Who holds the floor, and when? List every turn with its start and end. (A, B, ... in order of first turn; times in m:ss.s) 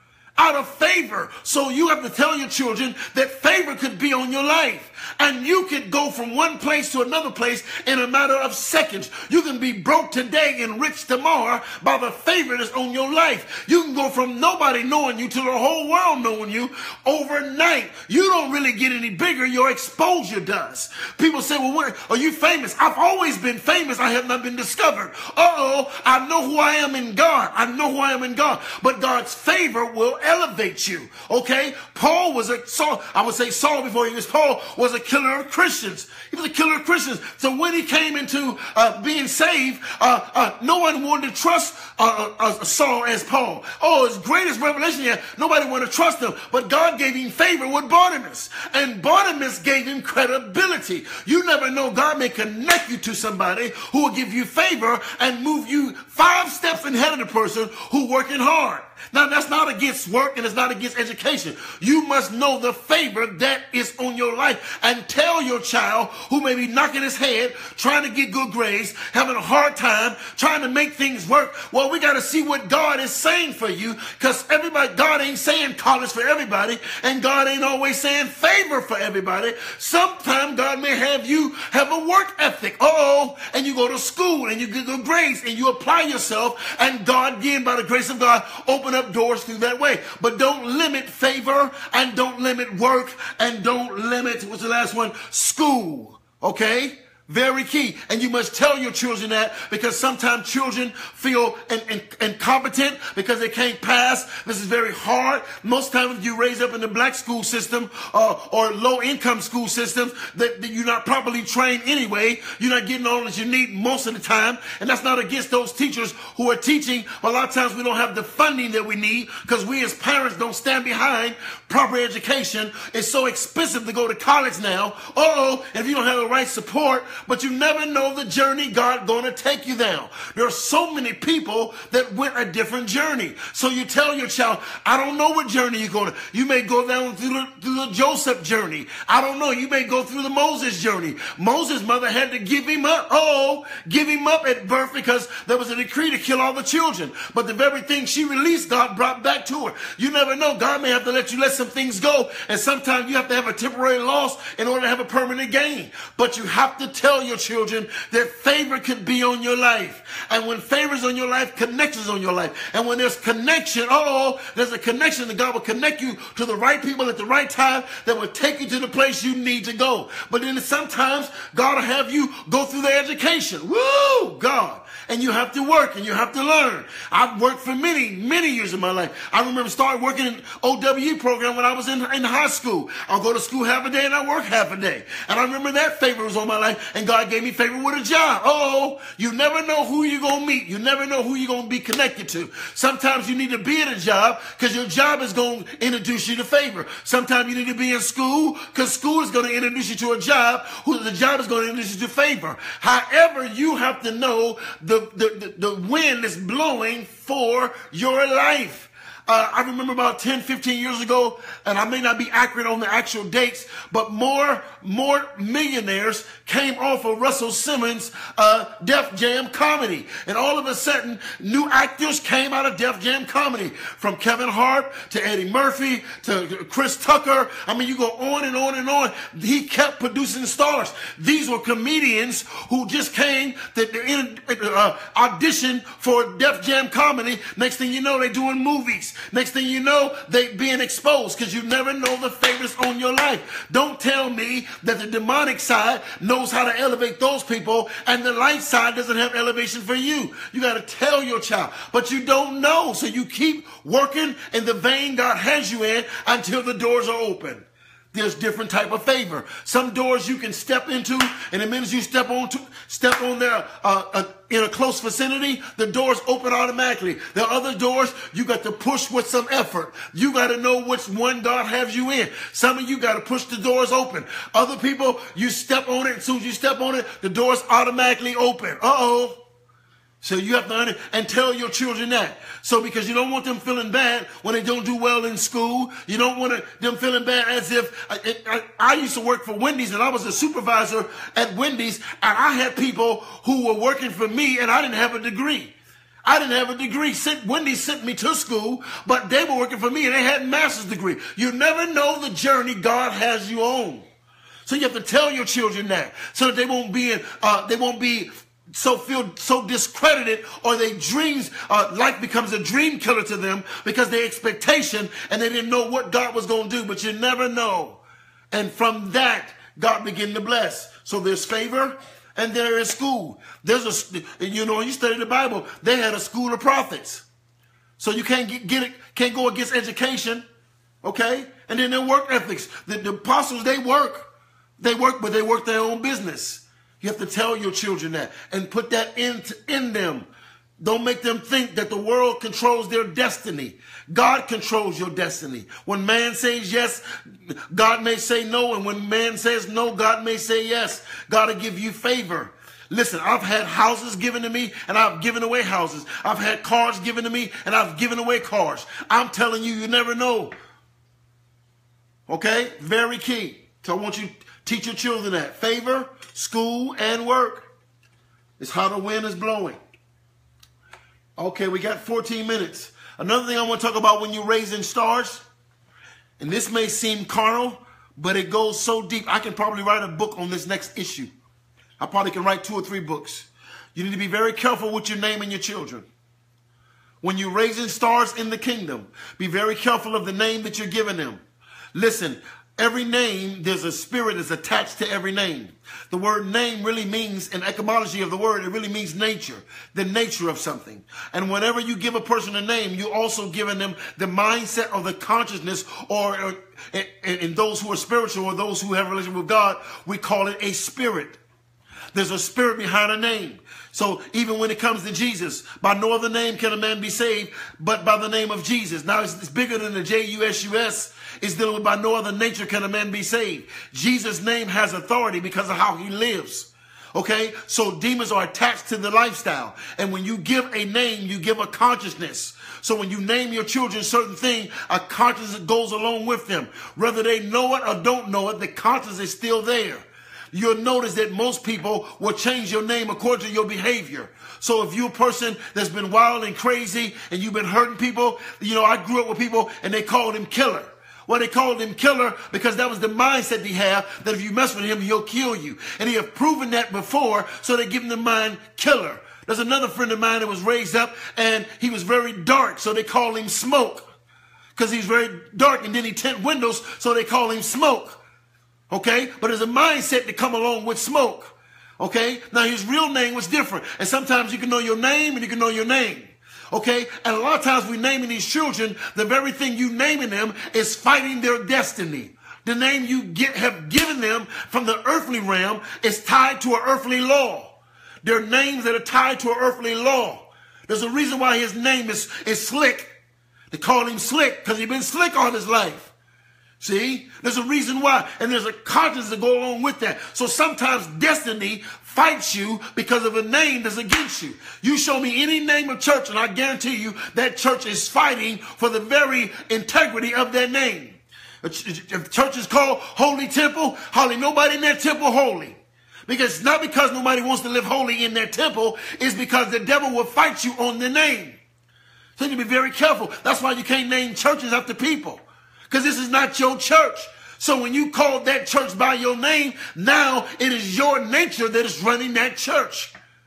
0:00.4-4:39.4 A
4:40.2-4:55.7 A
4:56.2-5:04.0 A
5:04.6-5:27.2 A
5:28.0-5:30.4 A
5:31.0-5:34.3 A
5:34.8-5:40.3 A
5:40.8-6:00.5 A
6:02.3-6:07.6 A
6:08.6-6:09.8 A
6:11.4-6:15.4 A
6:16.4-6:21.3 A
6:22.0-6:26.1 A
6:27.2-6:31.4 A
6:31.9-6:51.4 A
6:52.1-7:44.1 A
7:44.8-7:48.2 A
7:48.9-8:13.2 A
8:13.7-8:16.1 A
8:16.8-8:41.6 A
8:42.4-8:53.1 A